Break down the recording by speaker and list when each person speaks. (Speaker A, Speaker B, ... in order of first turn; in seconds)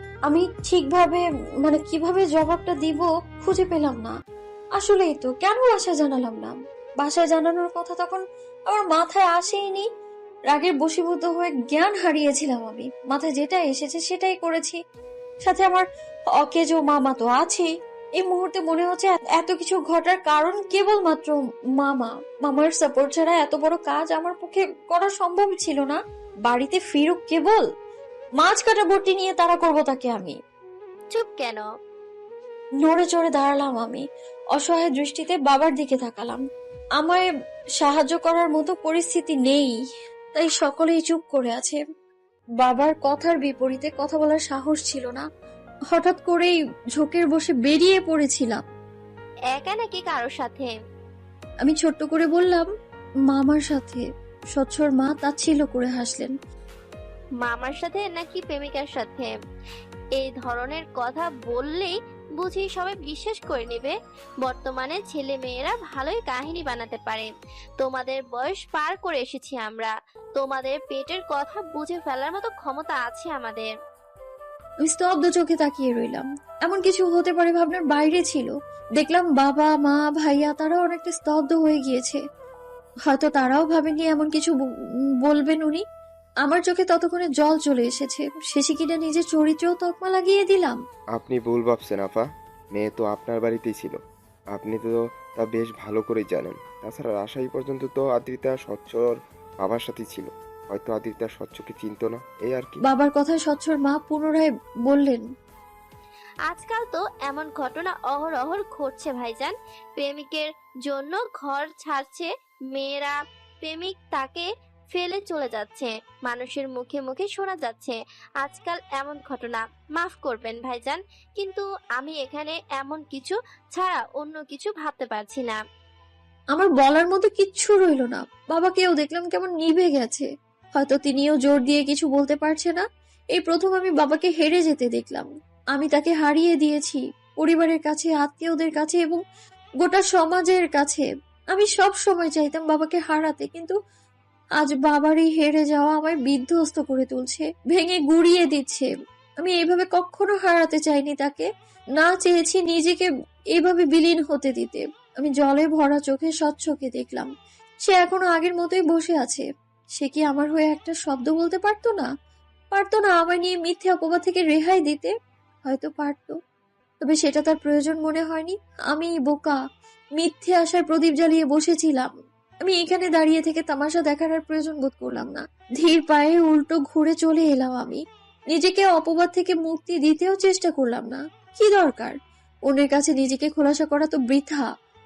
Speaker A: 0.3-4.2, 4.8-9.9, 10.5-14.8, 15.4-27.7, 28.4-30.4, 32.8-36.4, 37.0-37.2, 37.8-39.8, 40.3-41.8, 42.6-45.2, 45.9-48.6, 51.6-52.7, 53.3-54.0, 54.5-56.3, 74.8-82.2, 83.1-84.6, 85.2-85.8, 86.4-90.8, 102.9-105.2, 126.5-132.8, 133.3-139.2, 139.8-143.8, 144.6-148.9, 149.4-151.5, 152.0-157.3, 157.9-159.4, 160.0-162.1, 162.7-165.1, 165.7-166.3, 167.0-169.6, 170.2-172.1, 172.6-178.0, 178.5-182.2, 182.7-184.7
Speaker B: 31.1-31.6, 49.5-50.7, 57.4-59.3, 60.2-67.3, 67.8-73.7, 106.5-125.6
Speaker C: 91.2-92.2, 92.8-93.9, 94.6-102.7